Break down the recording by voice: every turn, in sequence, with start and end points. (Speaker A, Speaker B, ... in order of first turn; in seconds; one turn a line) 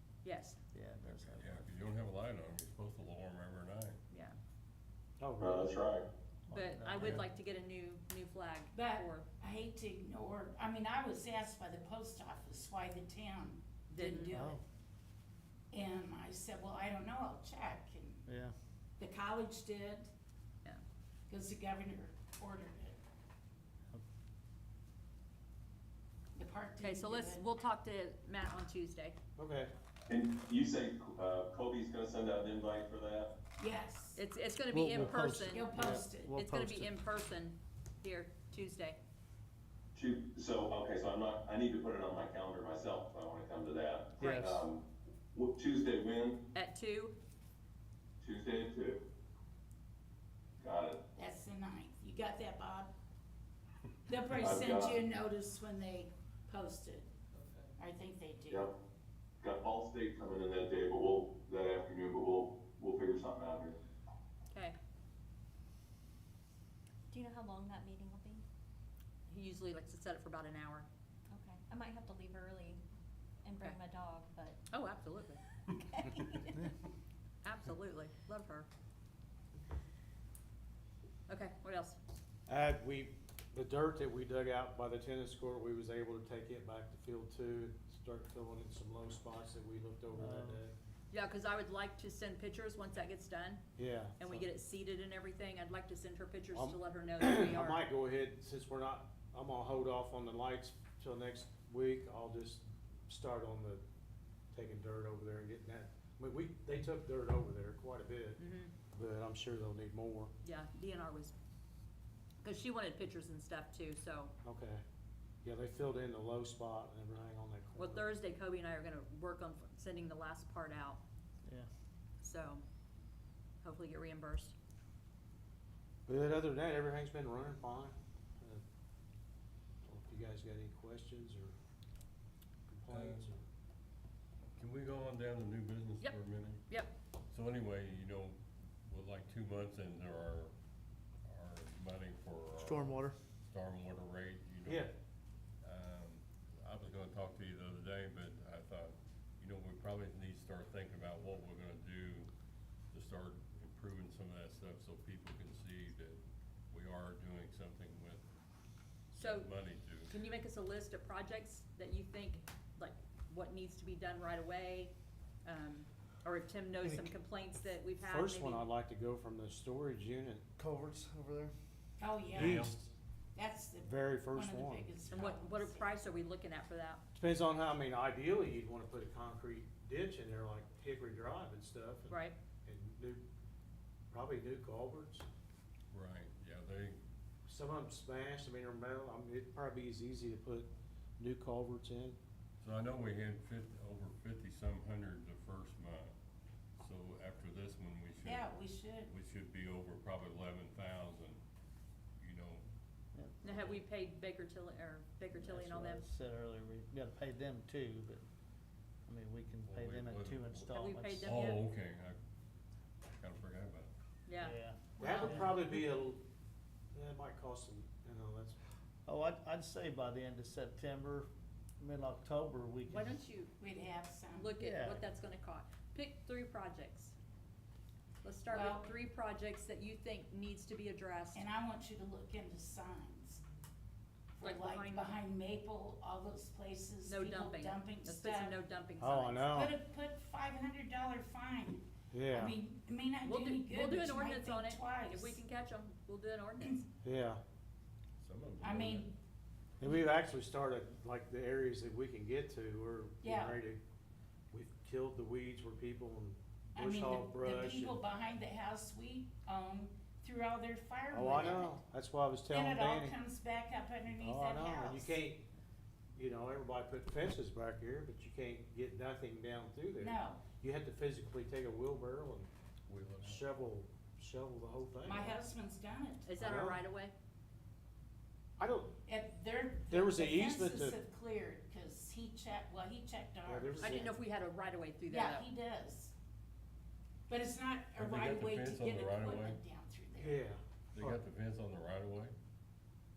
Speaker A: 0.2-0.6
Speaker B: 0.7-1.7
Speaker C: 1.3-4.0
Speaker A: 4.1-4.4
Speaker D: 5.2-5.8
Speaker E: 5.4-6.0
Speaker B: 6.5-7.3
Speaker A: 6.5-9.3
Speaker F: 8.7-14.6
Speaker A: 13.9-14.5
Speaker B: 14.3-14.6
Speaker F: 15.7-18.3
Speaker B: 18.3-18.6
Speaker F: 19.0-20.1
Speaker F: 21.3-23.0
Speaker F: 26.4-27.4
Speaker A: 26.8-29.2
Speaker D: 29.4-29.7
Speaker E: 30.1-33.3
Speaker F: 33.6-34.2
Speaker A: 34.2-39.0
Speaker B: 34.7-36.9
Speaker F: 35.4-36.4
Speaker E: 39.9-46.4
Speaker B: 44.2-44.6
Speaker A: 46.5-47.1
Speaker E: 48.2-49.0
Speaker E: 50.6-51.0
Speaker F: 51.2-52.9
Speaker F: 54.1-57.1
Speaker E: 54.4-55.0
Speaker F: 57.8-58.7
Speaker E: 59.4-63.8
Speaker G: 67.1-68.4
Speaker A: 69.3-70.9
Speaker G: 71.3-72.8
Speaker G: 73.4-74.6
Speaker A: 74.7-75.4
Speaker G: 75.7-76.6
Speaker A: 77.4-78.7
Speaker A: 81.3-82.0
Speaker D: 82.5-90.7
Speaker B: 90.1-90.6
Speaker A: 91.1-93.6
Speaker D: 93.8-94.5
Speaker A: 94.2-97.8
Speaker D: 96.5-103.8
Speaker D: 104.5-110.3
Speaker A: 108.4-108.7
Speaker A: 110.4-111.3
Speaker A: 112.4-114.3
Speaker D: 114.4-114.8
Speaker D: 115.4-118.1
Speaker A: 117.8-121.0
Speaker A: 122.2-122.6
Speaker A: 123.6-124.5
Speaker D: 126.1-128.6
Speaker D: 129.9-131.6
Speaker D: 132.7-133.4
Speaker C: 132.9-133.3
Speaker C: 134.6-136.7
Speaker C: 137.3-140.5
Speaker C: 141.2-144.9
Speaker B: 142.6-143.2
Speaker D: 144.7-144.9
Speaker C: 145.6-152.3
Speaker C: 152.9-158.2
Speaker C: 159.1-160.1
Speaker A: 159.2-159.5
Speaker A: 160.1-164.9
Speaker A: 165.4-168.7
Speaker D: 166.8-167.1
Speaker D: 168.0-170.4
Speaker B: 170.6-171.5
Speaker F: 172.0-172.7
Speaker D: 172.3-172.9
Speaker C: 172.4-172.7
Speaker F: 173.3-175.9
Speaker D: 173.8-175.1
Speaker A: 175.1-177.0
Speaker D: 177.2-183.2
Speaker A: 182.1-182.3
Speaker D: 184.1-185.3
Speaker C: 185.9-187.0
Speaker D: 187.5-192.2
Speaker C: 192.6-196.1
Speaker C: 196.8-201.4
Speaker F: 198.2-199.1
Speaker C: 202.2-202.6
Speaker B: 203.2-203.5
Speaker A: 203.4-206.0
Speaker C: 203.4-203.8
Speaker B: 205.4-208.2
Speaker B: 209.1-211.4
Speaker C: 209.7-212.2
Speaker A: 210.7-211.6
Speaker C: 213.1-213.9
Speaker A: 214.3-215.5
Speaker B: 214.4-215.5
Speaker F: 215.0-215.4
Speaker D: 215.0-216.2
Speaker D: 216.9-218.6
Speaker B: 219.1-221.3
Speaker B: 221.8-223.2
Speaker A: 222.9-223.6
Speaker F: 223.6-224.5
Speaker A: 224.3-227.2
Speaker B: 224.6-225.0
Speaker A: 228.2-231.5
Speaker F: 228.5-228.9
Speaker F: 231.3-233.4
Speaker F: 234.3-238.6
Speaker A: 234.4-235.2
Speaker A: 237.1-239.6
Speaker D: 239.0-239.8
Speaker F: 239.5-245.4
Speaker D: 242.1-242.6
Speaker A: 243.2-246.8
Speaker D: 247.0-247.4
Speaker C: 248.2-249.1
Speaker F: 248.6-249.1
Speaker D: 249.8-253.8
Speaker F: 253.2-253.6
Speaker D: 254.5-258.0
Speaker F: 256.8-261.8
Speaker D: 261.1-263.1
Speaker F: 262.5-265.2
Speaker D: 264.2-265.5
Speaker D: 266.1-272.5
Speaker F: 270.0-270.4
Speaker C: 272.9-273.5
Speaker D: 273.2-275.4
Speaker F: 275.0-276.3
Speaker A: 276.2-277.1
Speaker D: 276.4-276.8
Speaker D: 278.6-278.9
Speaker F: 279.1-284.1
Speaker D: 279.9-281.0
Speaker D: 283.5-284.1
Speaker A: 283.8-285.5
Speaker F: 285.1-286.1
Speaker F: 287.3-290.4
Speaker C: 288.0-289.6
Speaker D: 290.2-291.2
Speaker C: 290.9-292.4